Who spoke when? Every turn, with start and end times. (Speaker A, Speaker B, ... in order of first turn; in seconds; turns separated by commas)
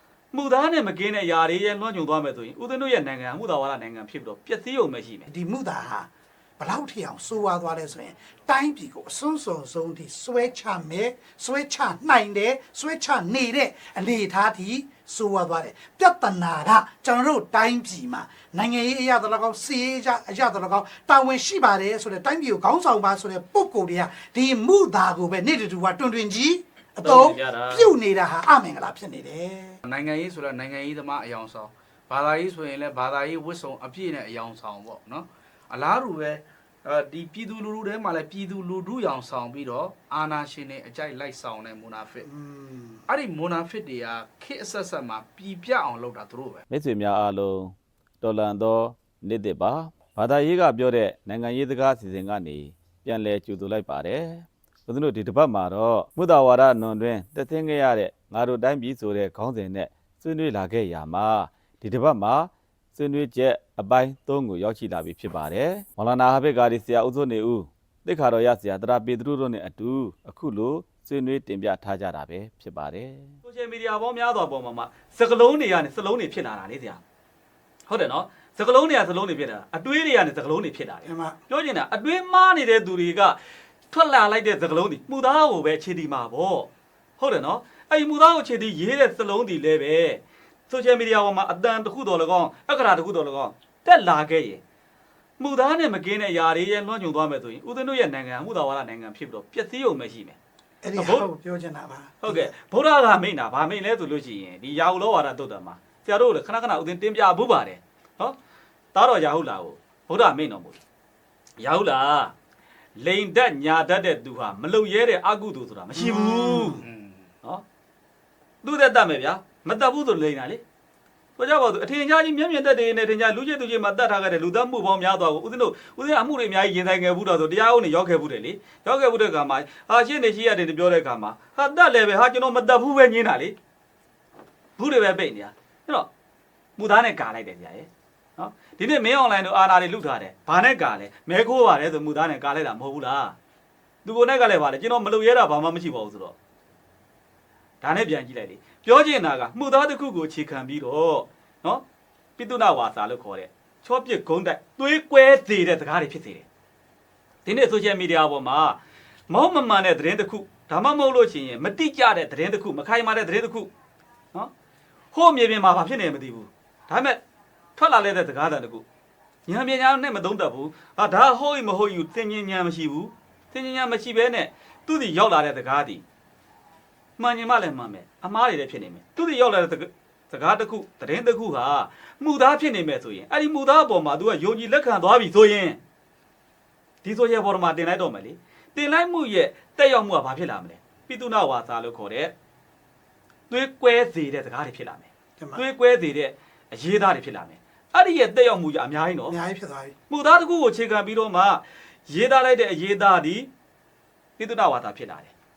Speaker A: 0.3-5.3, Speaker B: 5.3-29.8, Speaker A: 27.0-27.9, Speaker C: 29.9-42.3, Speaker B: 42.2-43.1, Speaker C: 43.1-46.6, Speaker D: 46.7-47.3, Speaker A: 47.1-47.7, Speaker D: 48.2-73.3, Speaker A: 48.8-49.2, Speaker A: 49.9-50.2, Speaker A: 50.9-53.0, Speaker A: 55.2-56.8, Speaker A: 58.0-58.3, Speaker A: 59.5-60.2, Speaker A: 61.8-62.5, Speaker A: 64.6-67.5, Speaker A: 73.3-77.0, Speaker A: 77.9-83.4, Speaker B: 81.1-81.4, Speaker A: 83.9-94.6, Speaker A: 95.4-100.4, Speaker B: 100.8-102.5, Speaker A: 101.0-101.3, Speaker A: 102.2-108.4, Speaker A: 108.9-110.8, Speaker A: 111.6-112.3, Speaker A: 113.0-116.8, Speaker B: 116.0-116.8, Speaker C: 116.8-117.3, Speaker A: 118.6-120.6, Speaker A: 121.4-133.6, Speaker A: 134.8-136.1, Speaker A: 136.8-143.3, Speaker A: 144.1-146.4, Speaker A: 147.8-151.8, Speaker A: 152.4-156.5, Speaker A: 157.4-158.8, Speaker A: 159.3-163.7, Speaker A: 165.1-167.2, Speaker A: 167.8-168.8, Speaker A: 169.5-176.0, Speaker A: 177.2-185.8, Speaker A: 187.0-192.3, Speaker A: 193.5-199.4, Speaker B: 199.3-199.9, Speaker A: 200.1-203.5, Speaker A: 204.4-205.3